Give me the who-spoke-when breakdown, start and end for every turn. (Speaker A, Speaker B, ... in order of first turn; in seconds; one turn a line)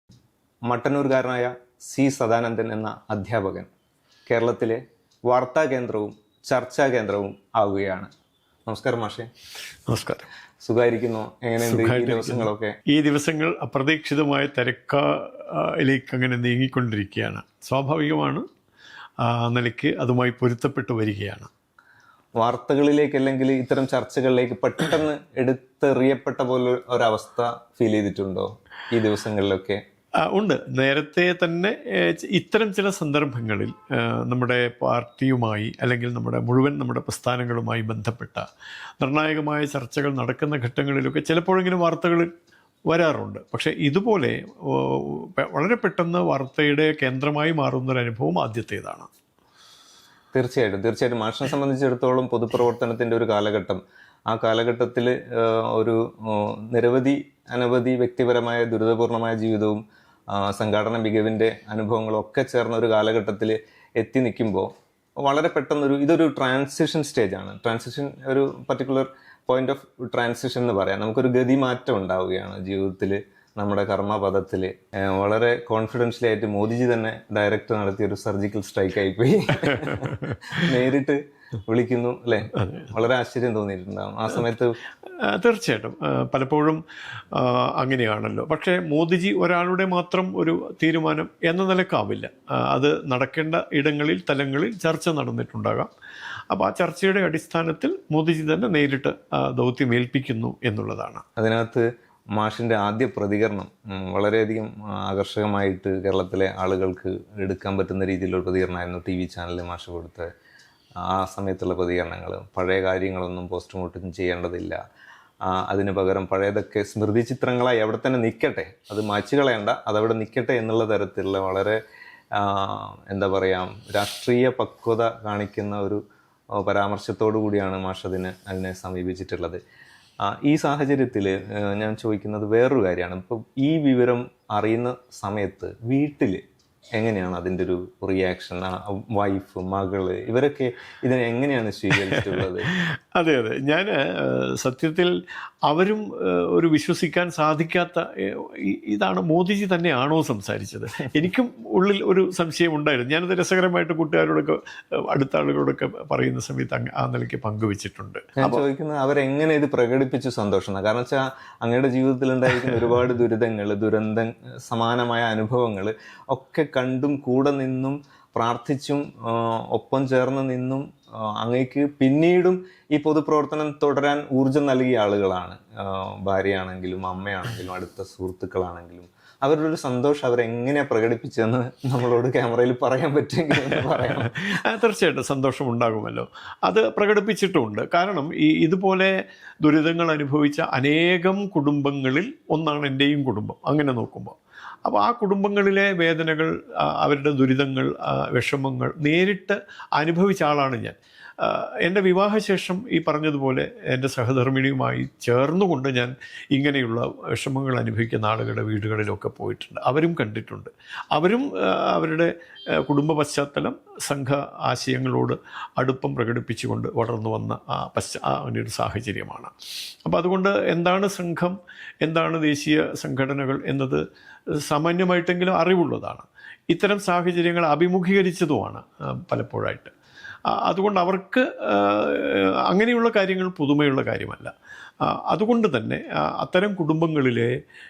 Speaker A: 0.7-3.7
Speaker A: 4.3-8.1
Speaker A: 8.7-9.3
Speaker B: 9.9-10.3
Speaker A: 10.6-12.7
Speaker B: 11.6-18.4
Speaker B: 19.2-21.5
Speaker A: 22.4-29.8
Speaker B: 30.3-38.5
Speaker B: 39.0-42.3
Speaker B: 42.9-49.1
Speaker A: 50.3-64.7
Speaker A: 65.2-84.8
Speaker B: 85.2-95.9
Speaker B: 96.5-101.2
Speaker A: 101.4-110.3
Speaker A: 111.0-114.8
Speaker A: 115.5-121.8
Speaker A: 122.4-126.0
Speaker A: 126.6-129.6
Speaker A: 130.2-136.4
Speaker A: 137.0-142.7
Speaker B: 142.2-145.1
Speaker B: 145.7-158.6
Speaker A: 158.4-170.8
Speaker A: 171.4-184.4
Speaker B: 183.8-219.5
Speaker B: 220.1-224.0
Speaker B: 224.6-229.9
Speaker B: 230.5-234.5
Speaker B: 235.1-237.5